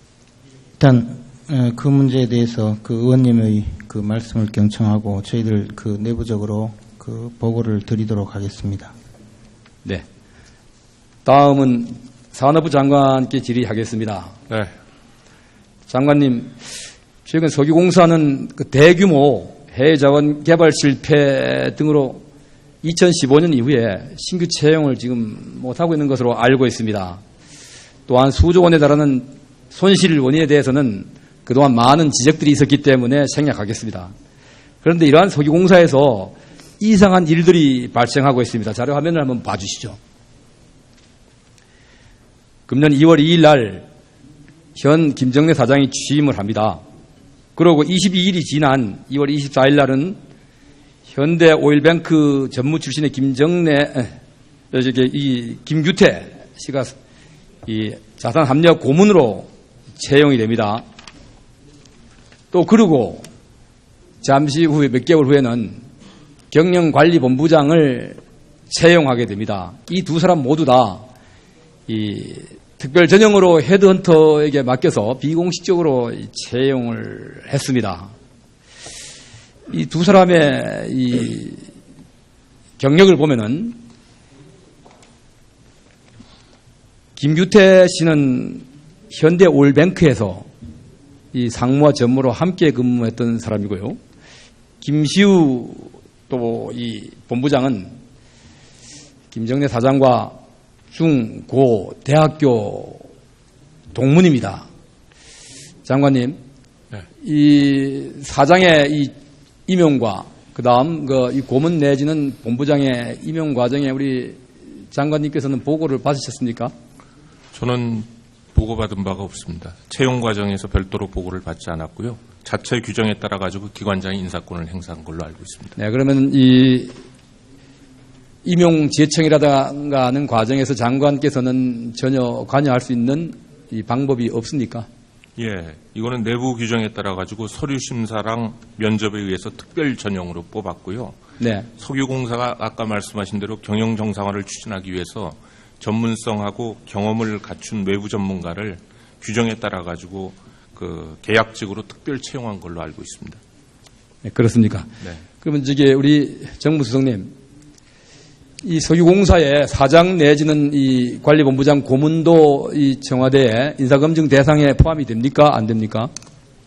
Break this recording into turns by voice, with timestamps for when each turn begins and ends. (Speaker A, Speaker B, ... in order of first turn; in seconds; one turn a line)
Speaker A: 0.8-8.9
Speaker B: 11.2-14.4
Speaker B: 15.9-16.6
Speaker B: 17.3-22.2
Speaker B: 22.8-27.2
Speaker B: 28.1-34.1
Speaker B: 34.8-40.0
Speaker B: 42.7-43.9
Speaker B: 44.8-46.8
Speaker B: 47.6-50.2
Speaker B: 51.1-54.1
Speaker B: 54.7-56.9
Speaker B: 57.7-60.8
Speaker B: 62.5-63.3
Speaker B: 64.2-65.8
Speaker B: 66.5-71.1
Speaker B: 71.9-78.1
Speaker B: 79.7-81.7
Speaker B: 82.8-83.8
Speaker B: 87.2-90.5
Speaker B: 91.3-94.0
Speaker B: 94.8-97.9
Speaker B: 99.3-100.3
Speaker B: 100.9-103.1
Speaker B: 103.9-104.7
Speaker B: 105.8-106.4
Speaker B: 107.2-109.1
Speaker B: 109.7-116.7
Speaker C: 117.5-125.8
Speaker B: 125.8-127.0
Speaker B: 128.4-134.9
Speaker C: 135.4-141.2
Speaker B: 141.4-141.7
Speaker C: 141.8-153.4
Speaker B: 154.2-157.3
Speaker B: 158.6-166.1